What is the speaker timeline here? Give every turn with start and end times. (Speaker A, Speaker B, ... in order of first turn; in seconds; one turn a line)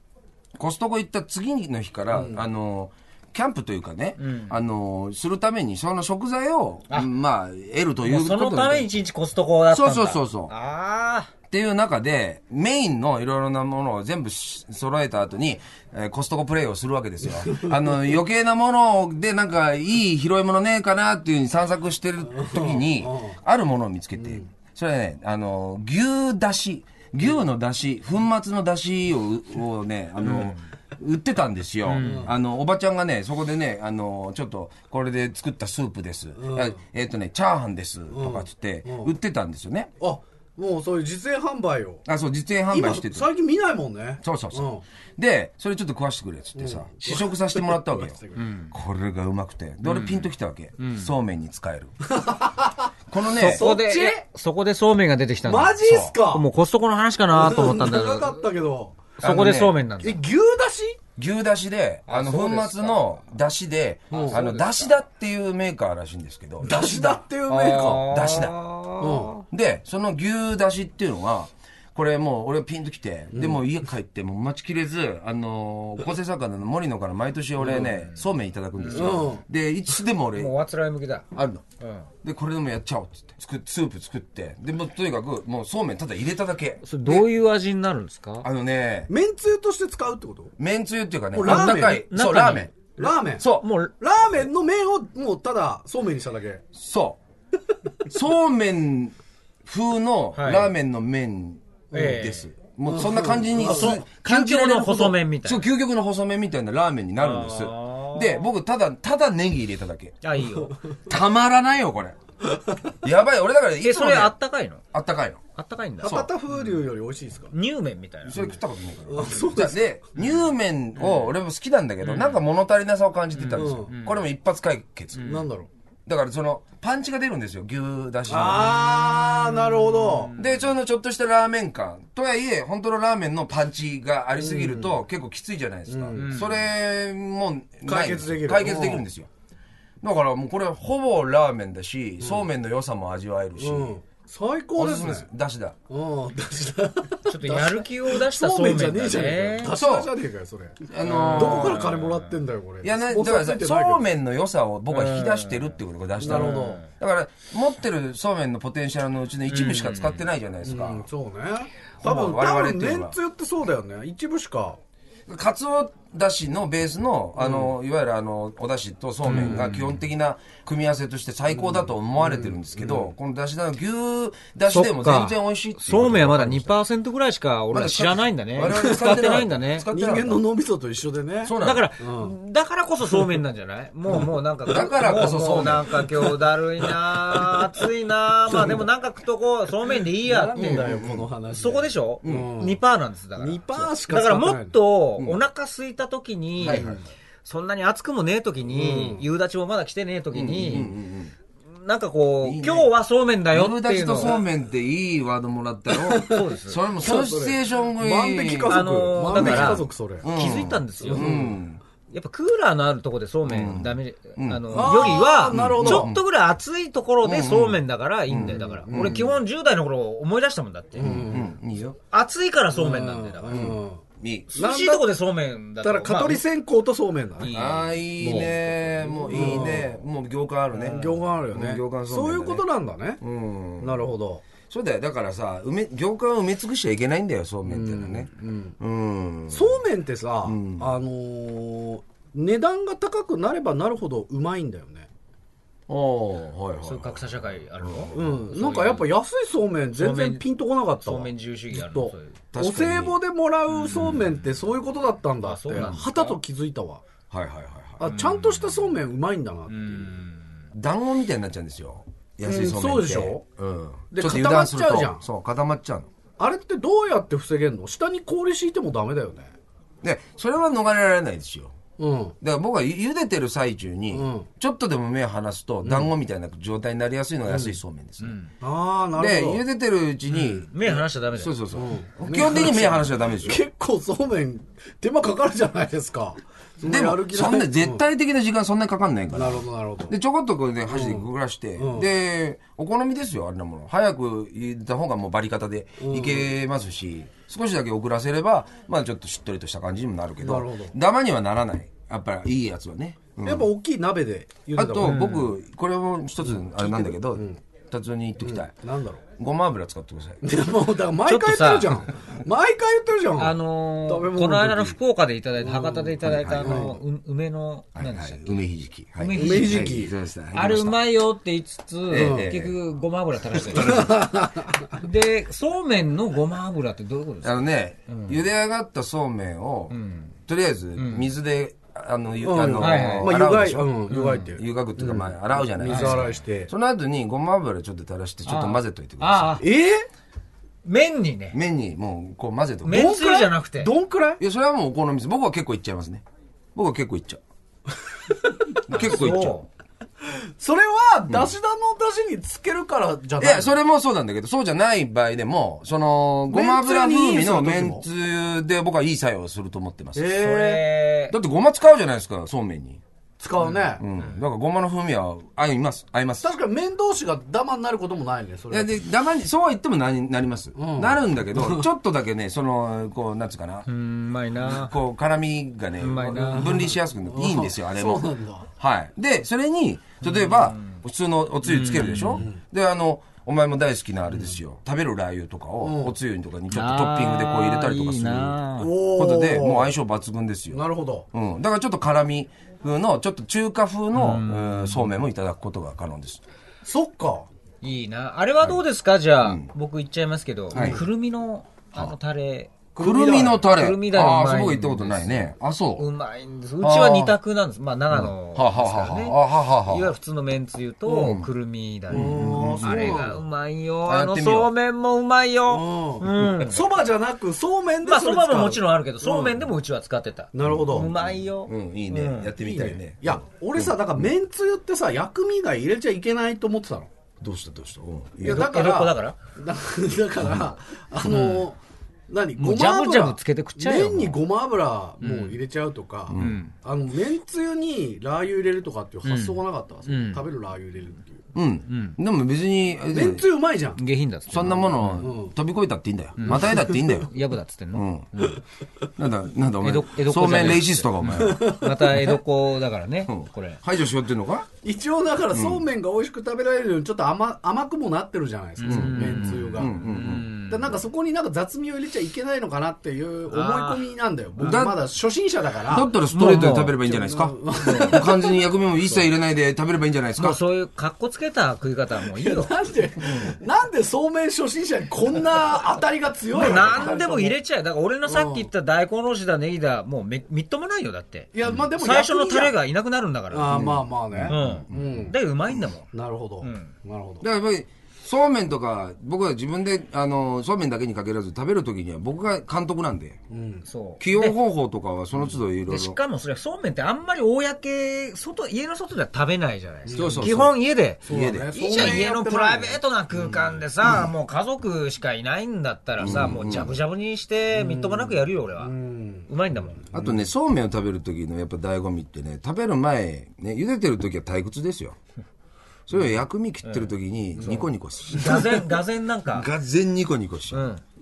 Speaker A: 0.6-8.9
Speaker B: 2.1-2.4
Speaker C: 4.2-4.6
Speaker C: 8.1-11.3
Speaker A: 9.7-10.5
Speaker A: 11.5-39.9
Speaker B: 17.4-17.7
Speaker B: 22.3-23.4
Speaker B: 24.2-24.4
Speaker C: 30.2-30.6
Speaker C: 31.9-32.3
Speaker B: 32.0-32.3
Speaker B: 36.4-36.8
Speaker B: 38.1-39.1
Speaker B: 40.0-42.0
Speaker A: 42.1-43.3
Speaker B: 42.7-44.8
Speaker A: 44.2-48.2
Speaker B: 46.6-48.5
Speaker C: 48.4-48.7
Speaker A: 48.7-52.0
Speaker C: 49.9-50.3
Speaker C: 50.8-51.1
Speaker B: 52.1-52.9
Speaker A: 53.1-53.7
Speaker C: 53.4-58.4
Speaker B: 53.4-54.2
Speaker B: 55.4-56.5
Speaker B: 57.3-59.2
Speaker A: 59.2-59.7
Speaker C: 59.2-60.2
Speaker B: 60.0-61.0
Speaker A: 61.2-68.5
Speaker C: 62.1-63.2
Speaker B: 64.1-64.4
Speaker C: 64.1-65.0
Speaker B: 66.6-68.1
Speaker C: 67.5-69.4
Speaker B: 69.0-69.3
Speaker A: 69.5-80.5
Speaker B: 73.3-73.6
Speaker B: 77.6-77.9
Speaker C: 78.8-79.2
Speaker B: 78.9-79.4
Speaker C: 80.3-81.3
Speaker A: 81.3-81.6
Speaker C: 81.8-82.1
Speaker A: 82.2-87.3
Speaker C: 86.8-88.5
Speaker A: 88.4-89.1
Speaker B: 89.1-90.5
Speaker A: 90.6-93.7
Speaker B: 91.3-93.5
Speaker C: 91.4-92.8
Speaker C: 93.5-93.9
Speaker B: 94.0-96.6
Speaker A: 96.8-97.2
Speaker A: 98.1-110.2
Speaker C: 100.4-100.7
Speaker C: 101.9-102.5
Speaker B: 101.9-102.2
Speaker B: 102.9-104.0
Speaker C: 103.6-105.6
Speaker C: 107.2-108.5
Speaker C: 110.2-110.8
Speaker A: 111.1-112.2
Speaker A: 113.0-114.3
Speaker C: 113.8-114.8
Speaker A: 114.9-115.4
Speaker C: 115.6-116.8
Speaker B: 116.0-117.5
Speaker A: 116.0-116.3
Speaker C: 117.5-118.4
Speaker A: 118.3-125.3
Speaker B: 119.1-119.8
Speaker C: 121.0-121.3
Speaker C: 122.0-122.4
Speaker C: 123.3-124.2
Speaker B: 123.5-123.9
Speaker C: 125.2-125.5
Speaker B: 125.2-125.7
Speaker A: 126.1-129.1
Speaker B: 128.3-130.3
Speaker C: 129.0-130.6
Speaker A: 130.4-139.3
Speaker B: 134.4-134.9
Speaker B: 135.9-136.4
Speaker C: 136.2-136.6
Speaker B: 137.9-139.1
Speaker A: 140.0-143.9
Speaker B: 143.6-145.3
Speaker A: 144.8-145.8
Speaker B: 145.9-154.1
Speaker C: 147.3-149.8
Speaker A: 149.7-150.1
Speaker A: 150.9-151.9
Speaker C: 151.0-152.3
Speaker A: 152.8-161.1
Speaker C: 154.9-155.7
Speaker B: 156.2-156.8
Speaker C: 156.2-156.9
Speaker C: 159.5-160.2
Speaker B: 160.6-164.8
Speaker A: 162.0-163.2
Speaker A: 165.3-176.7
Speaker B: 167.4-167.7
Speaker C: 169.2-170.0
Speaker B: 171.6-173.1
Speaker C: 174.7-179.9
Speaker A: 177.7-180.4
Speaker B: 178.7-179.3
Speaker B: 179.9-182.3
Speaker A: 181.4-181.9
Speaker C: 181.6-190.9
Speaker A: 184.7-186.1
Speaker B: 186.9-187.7
Speaker B: 188.6-188.8
Speaker B: 190.0-192.8
Speaker A: 190.6-191.3
Speaker C: 191.6-200.9
Speaker A: 192.2-192.5
Speaker B: 193.4-194.8
Speaker A: 196.6-197.0
Speaker B: 196.7-197.0
Speaker B: 198.7-199.2
Speaker A: 200.3-201.3
Speaker C: 201.7-204.4
Speaker A: 202.4-202.9
Speaker A: 203.5-211.8
Speaker B: 205.9-210.3
Speaker C: 206.3-206.8
Speaker C: 208.7-211.4
Speaker B: 211.0-211.6
Speaker C: 212.1-221.2
Speaker A: 213.5-216.2
Speaker B: 214.7-216.1
Speaker A: 217.2-219.3
Speaker B: 218.9-219.3
Speaker B: 221.0-221.5
Speaker A: 221.0-222.0
Speaker C: 222.1-223.7
Speaker B: 222.7-224.0
Speaker A: 223.5-224.5
Speaker C: 224.5-226.4
Speaker B: 224.5-225.1
Speaker B: 225.8-227.5
Speaker C: 227.4-228.5
Speaker A: 227.5-232.6
Speaker B: 229.2-230.0
Speaker C: 230.8-231.2
Speaker B: 230.8-233.2
Speaker A: 233.2-234.1
Speaker B: 233.8-234.4
Speaker A: 234.7-239.8
Speaker B: 237.7-238.8
Speaker B: 239.5-245.1
Speaker A: 240.4-240.9
Speaker A: 245.9-248.2
Speaker C: 246.8-249.1
Speaker B: 248.1-257.0
Speaker C: 250.0-250.4
Speaker C: 251.0-252.4
Speaker A: 252.5-253.2
Speaker C: 253.7-254.2
Speaker C: 255.4-256.4
Speaker A: 255.8-256.0
Speaker A: 257.3-258.0
Speaker B: 258.0-260.2
Speaker C: 258.1-258.8
Speaker C: 259.7-260.4
Speaker A: 260.7-266.1
Speaker B: 262.4-263.4
Speaker B: 264.1-265.2
Speaker B: 266.4-269.5
Speaker A: 270.0-271.8
Speaker B: 272.0-272.4
Speaker A: 272.4-278.4
Speaker B: 274.1-274.5
Speaker B: 275.8-276.1
Speaker B: 277.5-277.8
Speaker C: 278.2-278.5
Speaker B: 278.6-279.6
Speaker A: 279.2-280.7
Speaker C: 280.3-281.5
Speaker A: 281.4-283.6
Speaker B: 281.7-288.0
Speaker A: 286.8-303.7
Speaker B: 289.3-290.1
Speaker B: 290.9-291.3
Speaker B: 291.8-292.1
Speaker B: 296.0-296.5
Speaker B: 300.4-300.9
Speaker B: 303.4-305.4
Speaker A: 304.8-308.7
Speaker C: 305.0-305.5
Speaker B: 306.4-307.6
Speaker B: 308.4-309.2
Speaker A: 309.4-310.5
Speaker B: 310.4-315.0
Speaker C: 311.3-312.1
Speaker C: 313.4-320.0
Speaker B: 315.6-317.0
Speaker A: 316.2-316.9
Speaker A: 318.0-321.0
Speaker B: 319.3-320.1
Speaker C: 320.5-324.3
Speaker A: 322.1-322.8
Speaker B: 322.1-322.5
Speaker B: 323.6-324.9
Speaker C: 324.9-328.4
Speaker A: 327.4-339.6
Speaker C: 329.9-330.3
Speaker C: 331.0-331.3
Speaker B: 332.4-336.7
Speaker C: 332.8-333.3
Speaker C: 334.1-334.5
Speaker C: 335.9-336.3
Speaker C: 338.5-339.6
Speaker B: 339.6-340.1
Speaker C: 340.9-341.6
Speaker A: 341.5-343.1
Speaker C: 342.9-343.9
Speaker B: 342.9-344.4
Speaker A: 344.4-346.2
Speaker A: 346.8-347.4
Speaker A: 348.9-349.6
Speaker C: 348.9-349.7
Speaker B: 350.2-353.7
Speaker A: 351.3-351.5
Speaker A: 353.4-363.0
Speaker B: 356.5-358.1
Speaker B: 360.1-360.8
Speaker C: 360.2-361.4
Speaker B: 363.4-364.1
Speaker A: 364.0-366.6
Speaker B: 366.4-368.9
Speaker A: 368.7-373.9
Speaker B: 370.8-371.9
Speaker C: 373.9-374.9
Speaker A: 374.6-388.6
Speaker C: 376.0-376.9
Speaker B: 376.1-378.7
Speaker C: 380.2-381.0
Speaker C: 381.6-382.5
Speaker B: 385.8-386.1
Speaker C: 386.7-388.9
Speaker B: 388.8-389.9
Speaker A: 389.1-396.4
Speaker B: 390.7-391.3
Speaker C: 394.1-395.1
Speaker B: 396.8-397.5
Speaker C: 397.8-402.9
Speaker A: 399.4-399.7
Speaker A: 400.7-401.0
Speaker B: 400.7-401.0
Speaker B: 403.0-403.6
Speaker A: 403.0-406.1
Speaker C: 403.6-416.9
Speaker A: 406.8-407.4
Speaker A: 408.1-410.1
Speaker A: 411.1-411.5
Speaker A: 412.1-413.2
Speaker B: 412.1-413.4
Speaker A: 414.1-414.7
Speaker B: 415.7-419.6
Speaker C: 418.1-422.5
Speaker B: 420.5-421.1
Speaker A: 420.6-424.3
Speaker B: 422.6-427.1
Speaker A: 427.4-428.7
Speaker B: 428.4-431.8
Speaker C: 428.4-429.4
Speaker C: 431.2-431.7
Speaker B: 432.3-441.4
Speaker C: 432.6-434.4
Speaker C: 435.2-435.6
Speaker A: 436.3-436.6
Speaker C: 436.3-436.7
Speaker C: 439.2-440.4
Speaker A: 441.6-443.4
Speaker C: 441.9-442.2
Speaker B: 443.1-444.0
Speaker C: 444.0-445.3
Speaker A: 444.5-447.3
Speaker B: 445.2-445.6
Speaker C: 446.4-448.5
Speaker B: 446.5-447.1
Speaker A: 447.9-448.4
Speaker A: 449.2-451.8
Speaker C: 449.8-453.8
Speaker B: 451.2-452.4
Speaker A: 453.3-454.7
Speaker B: 454.8-459.9
Speaker A: 455.5-455.9
Speaker C: 458.8-461.0
Speaker A: 458.8-460.5
Speaker B: 460.7-466.1
Speaker C: 463.5-464.1
Speaker A: 464.6-465.0
Speaker A: 465.9-470.6
Speaker C: 466.3-467.0
Speaker B: 466.7-469.2
Speaker C: 467.8-468.2
Speaker C: 470.4-472.8
Speaker B: 472.2-477.6
Speaker C: 476.5-483.9
Speaker B: 478.3-478.7
Speaker B: 481.5-482.8
Speaker B: 483.5-485.4
Speaker A: 483.7-485.3
Speaker C: 484.5-486.1
Speaker B: 486.1-487.4
Speaker C: 486.6-486.9
Speaker A: 487.4-493.4
Speaker B: 493.5-493.9
Speaker C: 493.9-494.6
Speaker A: 494.2-496.2
Speaker C: 495.9-508.9
Speaker B: 500.1-500.5
Speaker A: 500.1-500.8
Speaker B: 501.2-503.7
Speaker A: 501.3-502.2
Speaker A: 506.2-507.0
Speaker B: 507.7-510.4
Speaker C: 509.5-510.1
Speaker A: 510.1-515.2
Speaker A: 516.1-518.9
Speaker C: 518.3-519.7
Speaker A: 519.5-520.9
Speaker C: 520.7-521.0